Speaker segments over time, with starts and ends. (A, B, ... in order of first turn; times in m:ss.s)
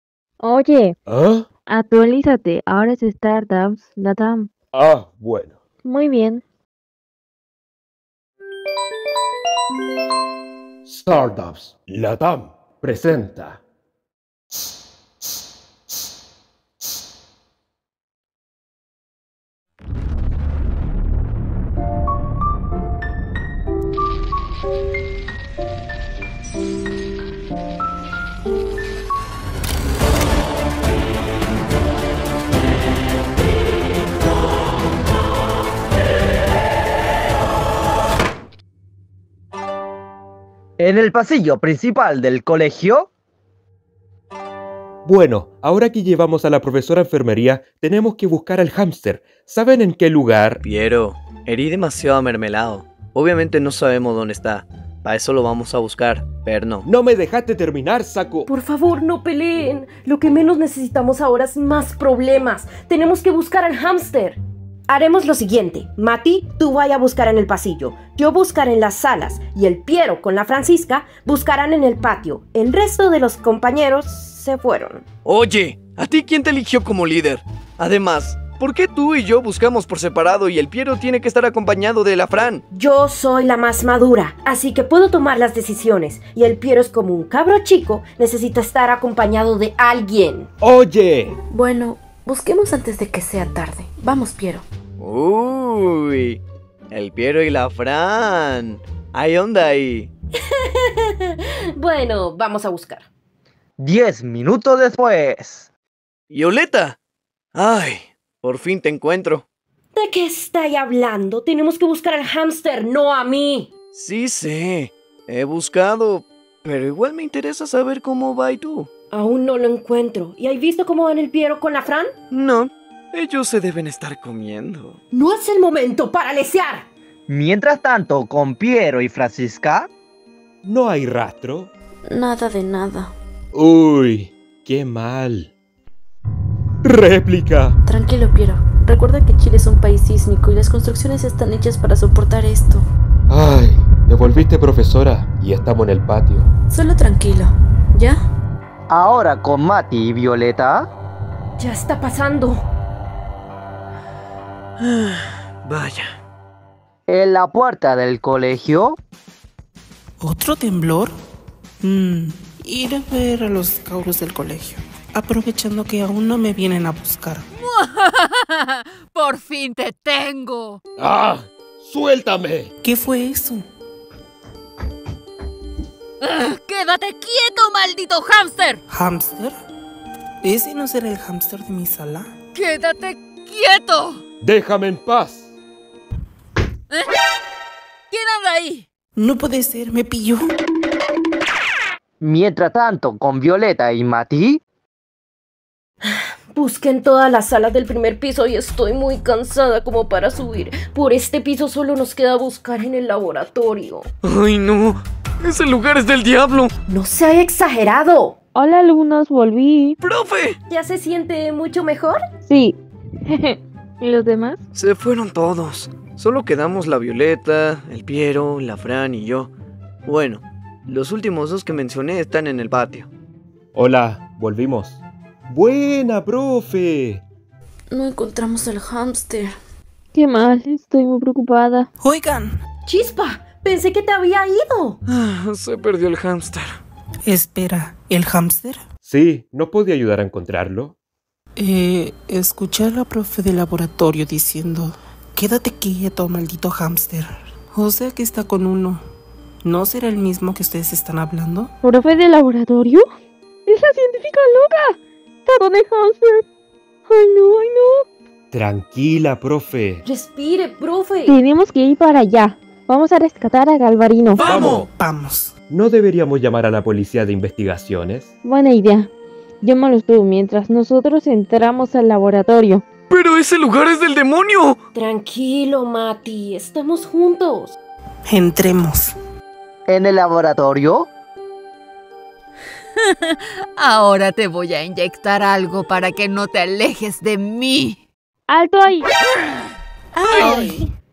0:00.4-0:01.0 A
0:01.1-0:01.5 B
0:01.7-0:04.5 A
0:04.7-0:05.6 B
0:05.8-0:06.4 A
0:10.8-0:13.6 B
0:40.8-0:43.1 C
0:45.0-0:50.6 B
0:50.6-0:56.8 D
0:56.8-0:58.5 B
0:58.5-1:15.0 E
1:15.2-1:22.6 D
1:22.7-1:30.5 E
1:30.6-1:31.4 B
1:31.5-1:34.6 F
1:35.0-1:36.4 D
1:36.9-1:40.1 D
1:40.4-1:43.1 E
1:43.8-1:45.7 C
1:46.3-1:47.0 D
1:47.5-1:49.4 D
1:49.9-1:53.7 E
1:53.9-1:58.9 D
1:59.1-2:02.1 E
2:02.3-2:05.0 D
2:05.1-2:06.9 E
2:07.3-2:09.9 C
2:10.6-2:11.7 B
2:12.1-2:13.1 F
2:13.5-2:15.5 B
2:16.8-2:17.8 B
2:17.8-2:22.8 F
2:23.3-2:26.5 B
2:26.7-2:28.2 F
2:28.9-2:30.9 C
2:31.6-2:32.6 E
2:34.8-2:36.1 D
2:37.1-2:39.0 C
2:40.2-2:41.1 G
2:41.8-2:47.4 G
2:47.6-2:50.8 H
2:51.0-2:52.7 B
2:52.8-2:53.6 G
2:56.2-2:58.8 H
2:58.9-2:59.5 G
3:00.4-3:02.3 G
3:02.5-3:04.2 H
3:04.4-3:05.5 B
3:08.1-3:08.8 H
3:09.2-3:10.4 G
3:12.2-3:14.6 C
3:16.0-3:24.0 E
3:24.2-3:26.7 D
3:26.9-3:28.4 E
3:28.5-3:30.0 A
3:30.0-3:30.6 D
3:30.7-3:32.2 E
3:32.4-3:34.6 A
3:34.7-3:39.5 D
3:40.0-3:43.1 D
3:43.7-3:47.2 B
3:47.9-3:49.5 F
3:50.1-3:51.9 A
3:52.0-3:52.5 G
3:52.8-3:55.0 E
3:55.1-3:56.8 D
3:57.2-3:58.8 G
3:59.0-4:01.0 B
4:01.6-4:09.0 G
4:09.6-4:11.7 G
4:11.8-4:13.0 A
4:13.6-4:16.4 A
4:17.1-4:18.0 A
4:18.5-4:20.0 B
4:20.0-4:21.4 E
4:21.2-4:24.5 A
4:24.3-4:24.9 D
4:24.4-4:24.8 B
4:24.5-4:25.5 G
4:25.7-4:28.3 B
4:28.4-4:29.1 A
4:29.6-4:32.8 A
4:33.1-4:34.8 D
4:34.9-4:37.7 E
4:38.3-4:39.1 G
4:39.9-4:41.1 C
4:43.0-4:48.0 H
4:48.5-4:49.1 A
4:50.3-4:50.6 H
4:50.4-4:50.8 G